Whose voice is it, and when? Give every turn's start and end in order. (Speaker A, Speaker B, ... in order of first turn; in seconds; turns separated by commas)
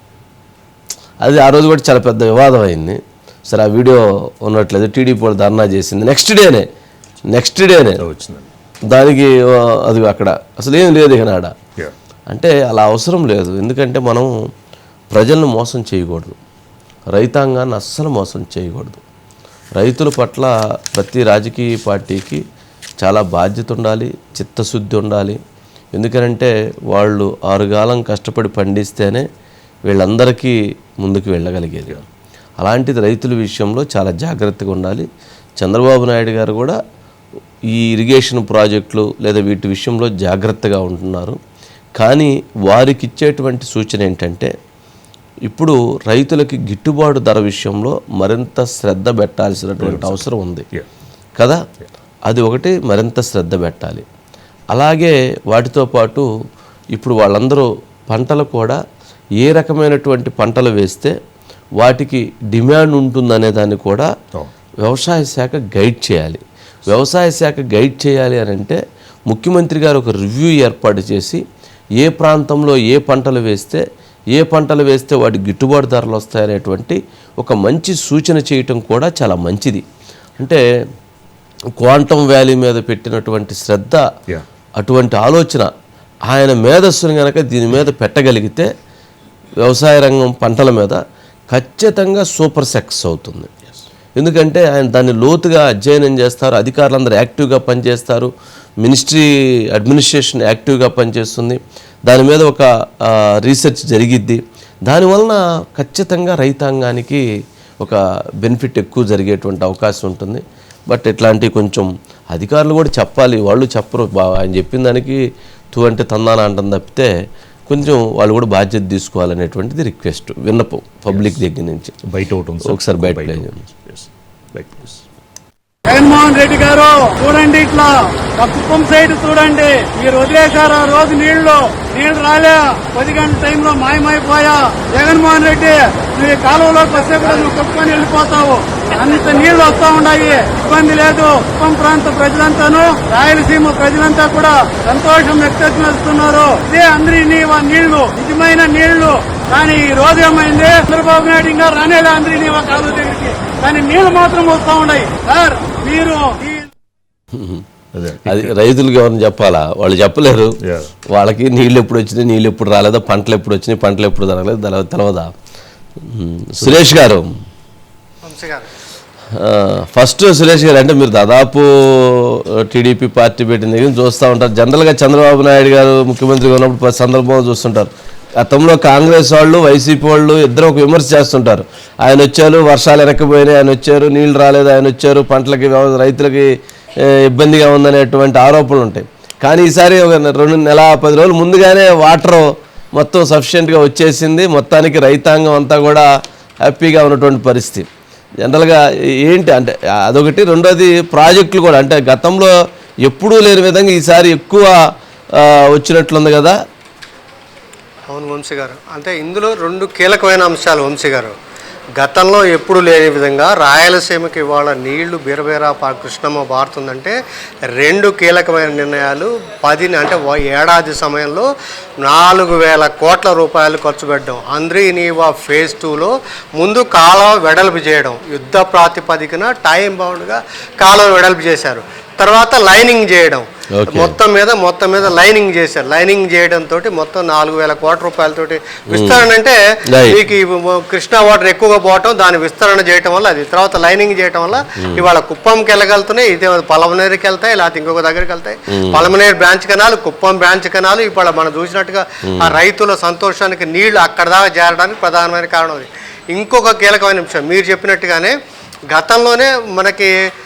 Speaker A: 1.2-6.7, Speaker A: 7.3-8.0, Speaker B: 8.0-8.5, Speaker A: 8.9-11.5, Speaker A: 12.3-14.3, Speaker A: 15.1-16.4, Speaker A: 17.1-19.0, Speaker A: 19.8-22.4, Speaker A: 23.0-25.4, Speaker A: 25.9-29.3, Speaker A: 29.9-32.0, Speaker A: 32.6-35.1, Speaker A: 35.6-36.8, Speaker A: 37.7-41.4, Speaker A: 42.0-44.5, Speaker A: 45.5-50.6, Speaker B: 49.8-50.2, Speaker A: 52.3-54.0, Speaker A: 54.7-56.3, Speaker A: 57.0-58.8, Speaker A: 59.4-61.1, Speaker A: 61.8-64.1, Speaker A: 64.8-71.4, Speaker A: 72.0-73.8, Speaker A: 74.3-79.8, Speaker A: 81.8-84.0, Speaker A: 84.8-85.7, Speaker A: 86.3-88.7, Speaker A: 89.6-91.0, Speaker A: 91.5-93.5, Speaker A: 94.2-98.3, Speaker A: 98.8-107.2, Speaker A: 107.8-115.2, Speaker A: 115.7-117.1, Speaker A: 117.7-122.0, Speaker B: 122.1-125.0, Speaker A: 122.7-123.6, Speaker C: 125.9-156.6, Speaker A: 157.3-157.6, Speaker B: 157.9-158.5, Speaker A: 158.3-160.6, Speaker B: 160.6-160.9, Speaker A: 161.1-165.3, Speaker A: 166.0-167.3, Speaker D: 168.2-168.7, Speaker A: 169.4-186.5, Speaker A: 187.1-196.1, Speaker A: 196.7-197.9, Speaker A: 198.4-202.5, Speaker A: 203.1-204.8, Speaker A: 205.4-206.6, Speaker D: 208.1-211.3, Speaker D: 212.0-217.2, Speaker D: 217.7-221.5, Speaker D: 222.0-258.4, Speaker A: 233.8-234.1, Speaker A: 238.9-239.2, Speaker A: 239.9-240.2, Speaker A: 244.8-245.0, Speaker A: 248.7-249.0, Speaker A: 252.3-252.6, Speaker D: 258.9-260.1